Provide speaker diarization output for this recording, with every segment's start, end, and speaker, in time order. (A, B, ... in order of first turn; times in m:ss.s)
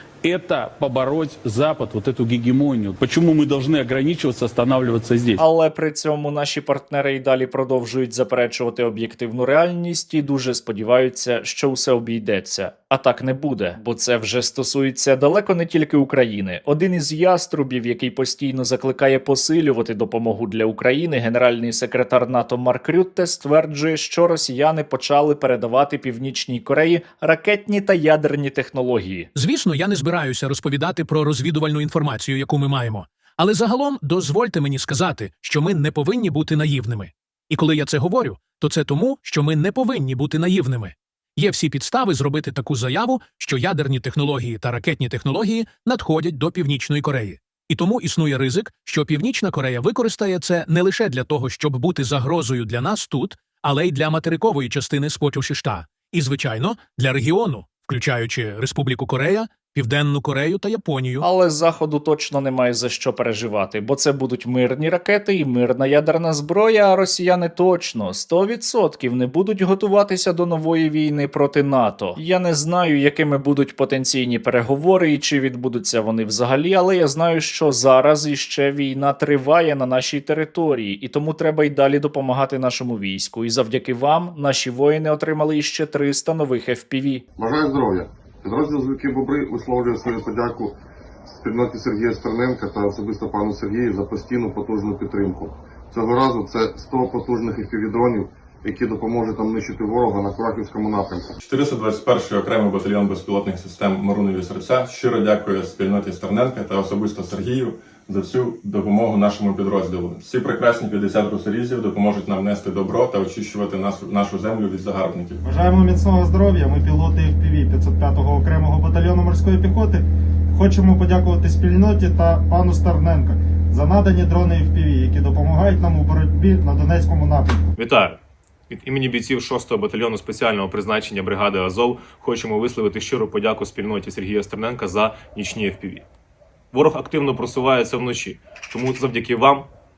0:00.2-0:05.4 A
0:05.4-0:29.3 B
0:29.4-1:01.3 C
1:01.2-1:27.2 B
1:27.4-1:30.8 D
1:31.4-1:41.3 D
1:41.4-1:55.4 E
1:55.4-2:07.7 F
2:07.8-2:16.1 G
2:16.7-2:19.7 G